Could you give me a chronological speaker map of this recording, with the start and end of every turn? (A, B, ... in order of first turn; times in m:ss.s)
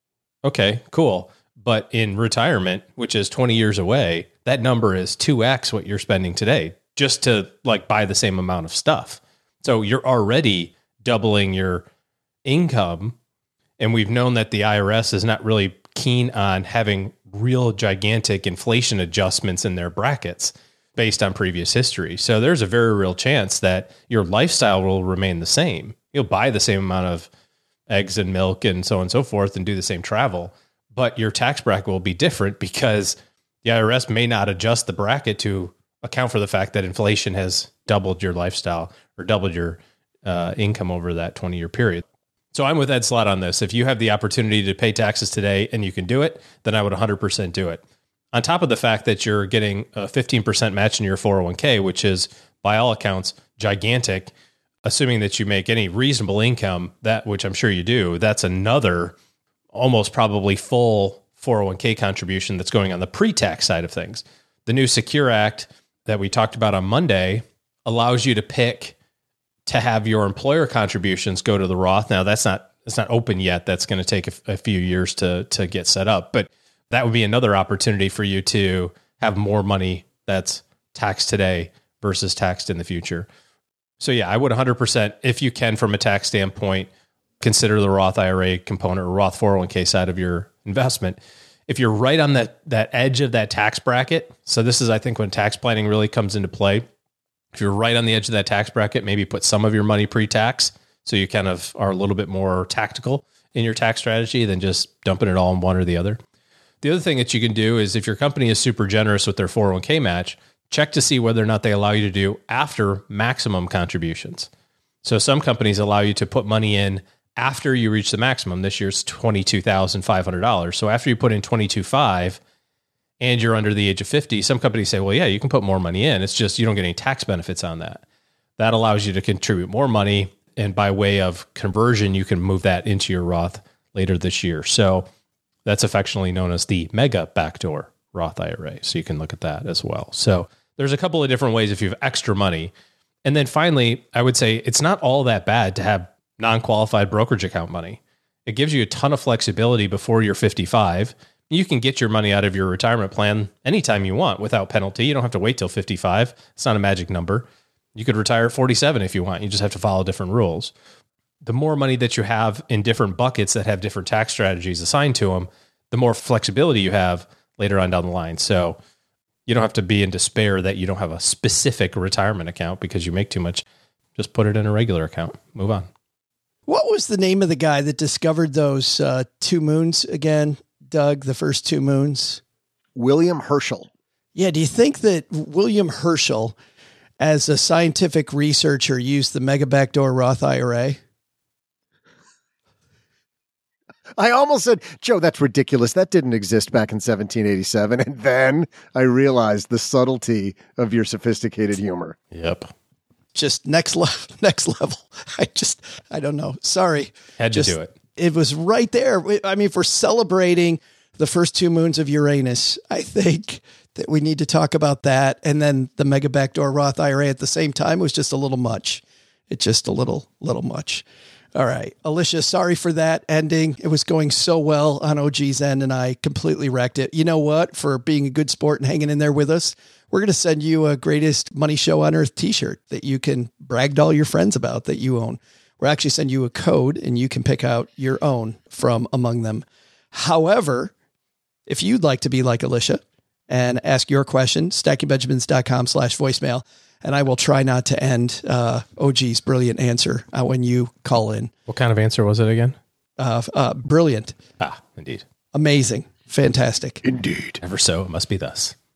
0:00.4-0:11.8 A
0:12.4-0:13.2 A
0:13.8-0:27.3 A
0:27.9-0:47.8 A
0:48.3-0:54.3 A
0:54.8-0:59.1 A
0:59.7-1:08.9 A
1:09.6-1:23.3 A
1:24.0-1:26.9 A
1:27.4-1:36.8 A
1:37.5-1:46.2 A
1:46.8-1:54.5 A
1:55.0-2:02.4 A
2:03.2-2:08.0 A
2:08.6-2:15.1 A
2:15.6-2:22.7 A
2:23.2-2:40.7 A
2:41.4-2:48.8 A
2:49.4-2:53.6 A
2:54.2-2:55.9 A
2:56.7-3:02.4 B
3:02.9-3:03.9 C
3:04.3-3:06.5 B
3:07.2-3:11.0 B
3:14.2-3:22.2 C
3:22.3-3:22.7 A
3:23.3-4:00.9 B
3:27.4-3:27.9 A
4:01.7-4:11.5 B
4:11.7-4:12.8 A
4:13.2-4:14.3 B
4:14.6-4:15.2 A
4:15.5-4:17.0 B
4:17.2-4:17.6 C
4:17.6-4:18.7 A